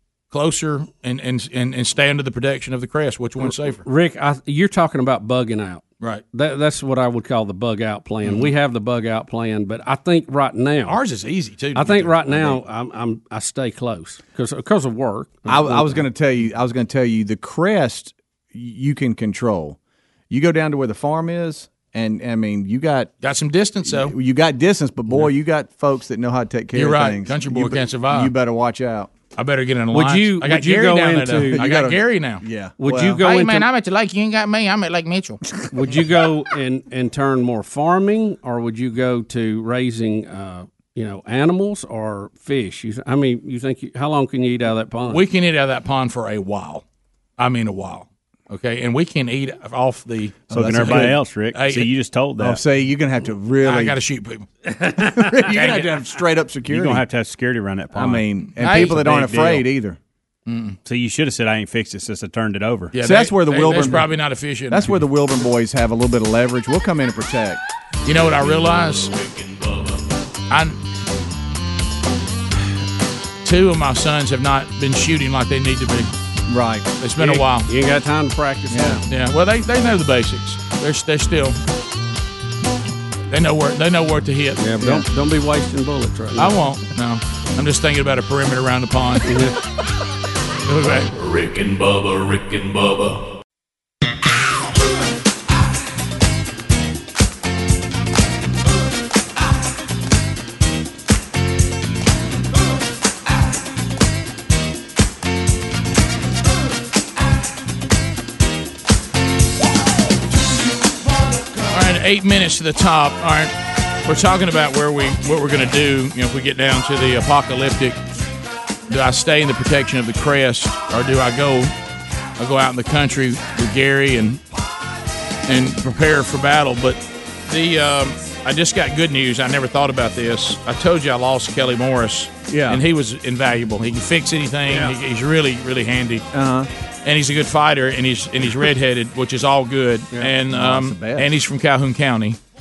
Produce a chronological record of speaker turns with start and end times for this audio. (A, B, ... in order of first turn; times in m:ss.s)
0:00.3-0:03.8 A
0:03.8-0:11.0 B
0:10.8-0:12.6 A
0:11.7-0:16.0 B
0:15.5-0:19.8 C
0:20.3-0:23.1 C
0:23.2-0:24.1 A
0:23.8-0:29.1 C
0:26.7-0:28.3 A
0:29.4-0:32.4 A
0:29.9-0:31.6 B
0:31.5-0:33.2 C
0:32.8-0:33.6 B
0:33.2-0:35.4 A
0:35.7-0:45.2 B
0:45.1-0:46.8 A
0:47.4-0:51.9 A
0:50.5-0:52.6 D
0:50.5-0:51.2 C
0:52.4-0:54.0 C
0:53.6-0:54.5 A
0:54.8-0:55.5 B
0:55.2-0:57.0 C
0:55.5-0:56.0 A
0:56.7-0:59.7 D
0:57.9-1:00.0 C
0:58.6-0:59.0 A
1:00.5-1:00.8 A
1:00.8-1:02.9 D
1:02.9-1:05.0 A
1:03.0-1:04.1 C
1:04.7-1:07.6 C
1:08.0-1:09.1 A
1:09.4-1:09.7 E
1:10.5-1:10.8 A
1:13.4-1:16.1 A
1:16.5-1:16.8 C
1:17.0-1:17.7 A
1:17.2-1:19.0 B
1:18.7-1:21.6 A
1:23.3-1:24.6 A
1:24.6-1:26.5 B
1:26.4-1:29.4 A
1:29.2-1:29.6 B
1:30.7-1:31.1 A
1:31.1-1:33.3 E
1:51.7-1:58.0 A
1:58.9-2:01.7 A
2:02.4-2:04.4 A
2:05.5-2:16.2 A
2:12.5-2:12.8 C
2:16.3-2:16.7 C
2:17.0-2:22.4 A
2:20.2-2:21.3 C